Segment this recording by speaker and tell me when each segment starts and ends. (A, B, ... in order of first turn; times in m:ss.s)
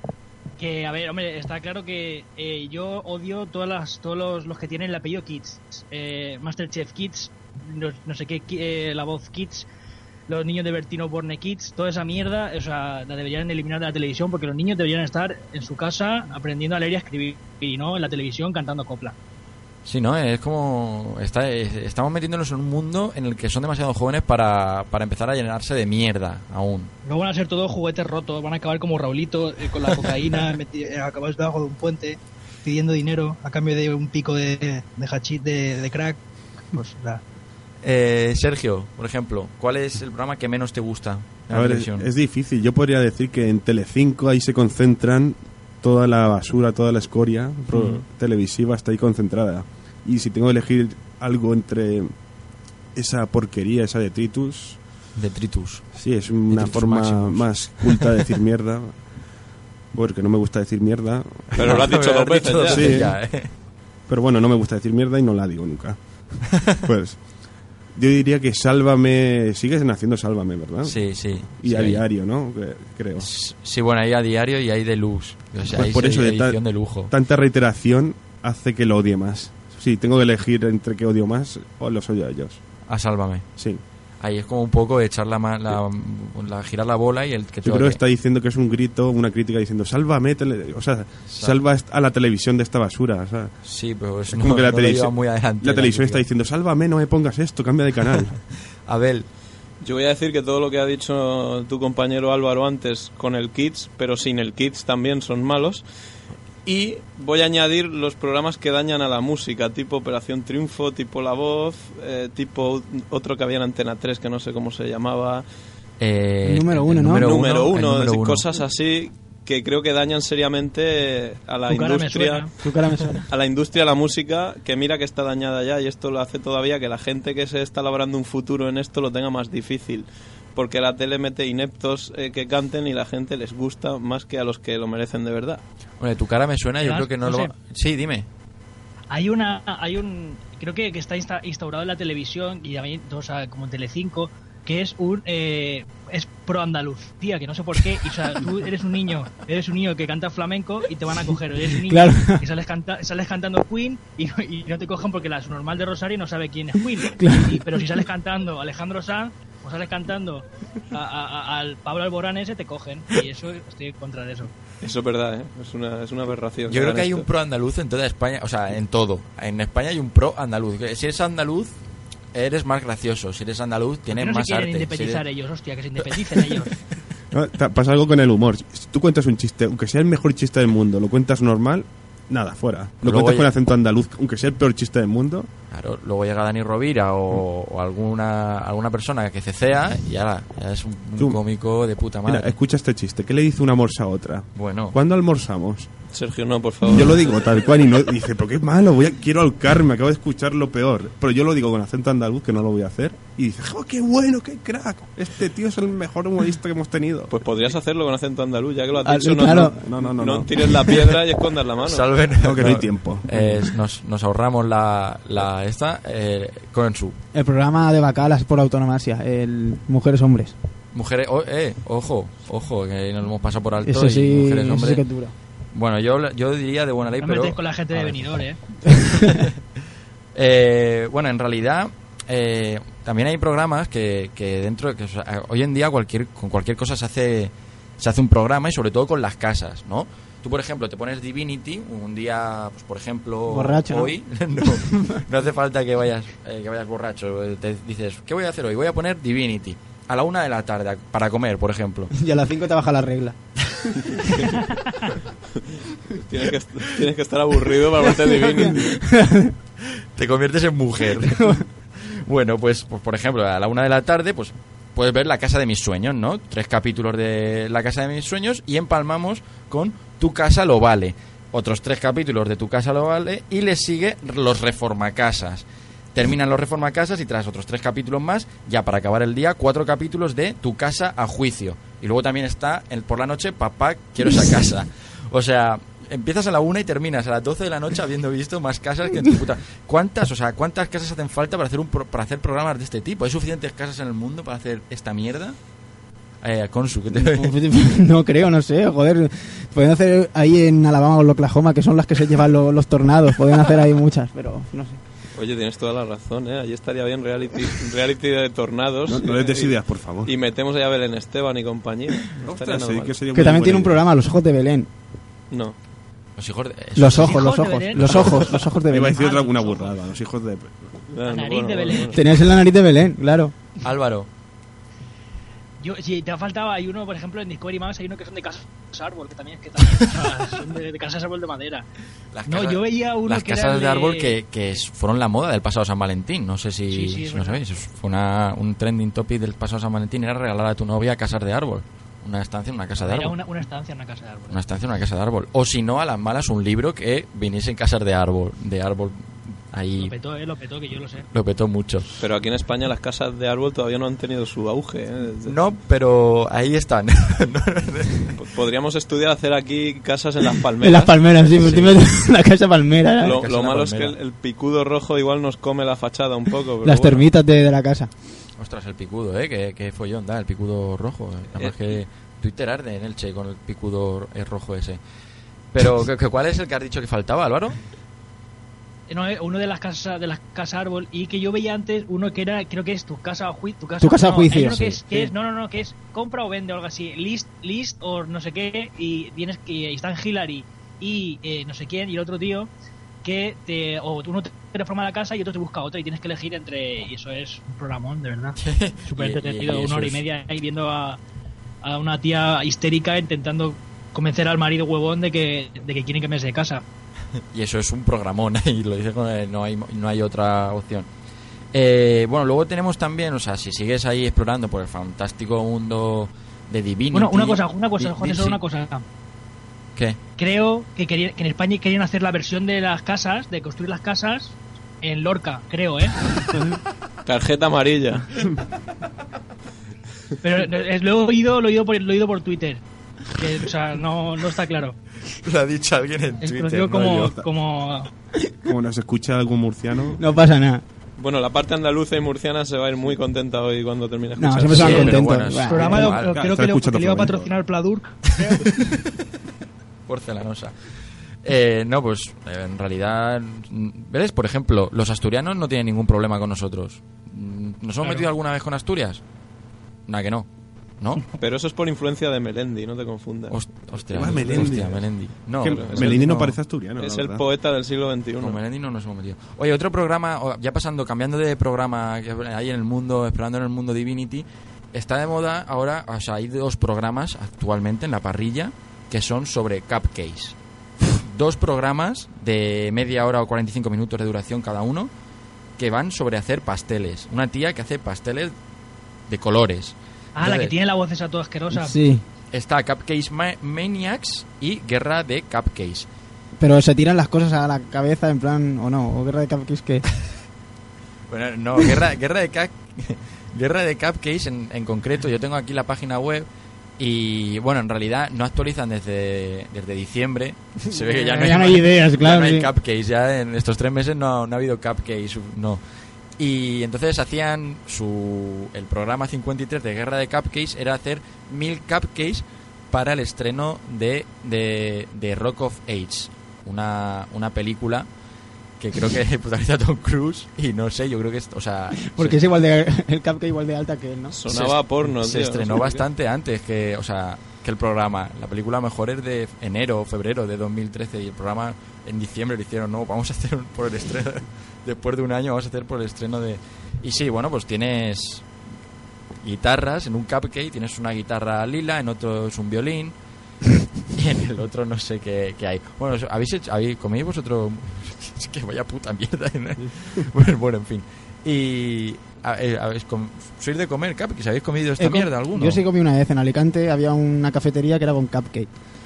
0:00.6-0:09.7 A
0:10.3-0:19.2 A
0:19.8-0:26.9 B
0:27.0-0:36.2 A
0:36.7-0:37.2 A
0:37.8-0:42.1 B
0:41.5-0:52.1 C
0:47.7-0:48.0 B
0:53.0-0:54.8 C
0:55.2-0:55.9 B
0:56.0-0:59.0 C
0:56.5-0:58.2 B
0:59.9-1:01.6 C
1:01.5-1:03.5 B
1:01.6-1:03.0 D
1:02.7-1:03.2 C
1:04.1-1:06.0 C
1:06.5-1:06.8 B
1:06.6-1:07.2 C
1:07.9-1:13.3 C
1:10.8-1:12.0 B
1:13.2-1:17.1 B
1:15.7-1:16.6 C
1:17.1-1:22.6 C
1:22.9-1:23.5 B
1:24.2-1:28.0 B
1:27.6-1:33.5 C
1:31.3-1:31.6 B
1:33.6-1:36.2 B
1:34.3-1:38.4 C
1:38.9-1:39.3 B
1:39.8-1:45.8 D
1:46.6-1:55.4 D
1:56.0-1:58.6 B
1:56.4-1:57.3 E
1:57.2-2:02.5 D
2:01.7-2:02.5 A
2:02.6-2:03.2 E
2:03.3-2:15.6 D
2:16.0-2:18.3 B
2:16.8-2:17.5 A
2:19.1-2:44.5 A
2:31.8-2:32.4 E
2:37.1-2:37.8 E
2:44.8-2:47.3 D
2:46.7-2:51.7 B
2:52.3-2:55.2 B
2:54.1-2:56.7 A
2:56.1-2:56.6 B
2:57.3-3:05.5 C
3:03.0-3:03.5 B
3:05.7-3:12.6 B
3:12.3-3:15.9 C
3:14.6-3:15.0 B
3:16.1-3:17.5 D
3:16.8-3:27.4 C
3:27.3-3:32.1 D
3:29.0-3:29.8 E
3:29.4-3:31.1 C
3:31.8-3:37.2 B
3:32.4-3:33.7 C
3:37.3-3:40.6 E
3:40.9-3:45.0 B
3:43.8-3:45.3 E
3:45.7-3:48.4 B
3:47.2-3:48.6 A
3:49.0-3:49.3 E
3:49.2-3:49.5 B
3:50.4-4:12.1 B
4:03.5-4:05.2 E
4:12.1-4:13.4 E
4:16.2-4:18.9 D
4:18.3-4:19.5 E
4:20.2-4:55.6 B
4:21.2-4:21.6 E
4:56.4-4:57.5 B
4:57.1-5:05.0 E
5:05.4-5:13.3 D
5:09.1-5:10.3 C
5:12.4-5:14.0 C
5:13.3-5:14.9 E
5:15.5-5:15.8 D
5:16.4-5:17.5 B
5:17.0-5:19.2 E
5:17.2-5:18.3 A
5:18.1-5:18.4 B
5:18.9-5:20.9 C
5:19.1-5:20.0 A
5:21.1-5:22.2 D
5:21.3-5:22.1 A
5:22.1-5:23.5 E
5:23.8-5:24.3 B
5:25.8-5:31.8 A
5:32.3-5:43.3 B
5:32.5-5:34.4 A
5:36.9-5:37.6 A
5:43.0-5:44.6 A
5:44.5-5:50.1 B
5:50.0-5:51.3 A
5:51.3-5:52.1 B
5:52.2-5:55.6 D
5:55.4-5:58.4 B
5:58.4-6:01.2 D
6:00.8-6:03.4 E
6:01.6-6:02.0 B
6:03.2-6:07.2 D
6:03.2-6:04.2 B
6:06.8-6:08.1 E
6:08.6-6:15.0 B
6:15.7-6:17.8 B
6:19.1-6:32.7 A
6:24.0-6:25.0 E
6:33.2-6:41.2 A
6:38.6-6:40.2 B
6:41.8-6:46.8 A
6:47.5-6:51.1 B
6:51.7-6:58.6 B
6:57.1-6:59.0 A
7:00.4-7:06.2 A
7:07.3-7:08.3 D
7:10.4-7:15.0 A
7:15.4-7:16.9 B
7:16.4-7:18.1 A
7:16.8-7:17.5 C
7:18.6-7:20.2 C
7:20.2-7:20.8 E
7:21.2-7:25.2 D
7:24.4-7:26.1 E
7:24.7-7:26.4 B
7:25.7-7:28.1 A
7:25.9-7:27.5 C
7:28.4-7:28.8 B
7:30.1-7:30.7 B
7:31.4-7:39.2 B
7:40.1-7:40.5 B
7:41.0-7:41.3 B
7:41.4-7:43.6 D
7:43.5-7:46.5 B
7:44.1-7:45.0 C
7:44.2-7:44.8 D
7:45.6-7:47.4 C
7:45.6-7:48.6 D
7:48.4-8:05.1 B
8:05.8-8:08.5 B
8:09.3-8:10.7 B
8:10.4-8:12.0 A
8:11.7-8:12.2 E
8:12.5-8:16.1 B
8:16.6-8:20.0 E
8:21.3-8:26.5 B
8:27.0-8:35.8 B
8:30.9-8:32.7 E
8:36.4-8:48.1 B
8:48.8-8:52.4 B
8:52.0-8:54.4 E
8:54.3-8:56.0 D
8:54.5-9:08.4 B
9:09.4-9:13.1 B
9:14.1-9:25.8 B
9:25.0-9:28.7 E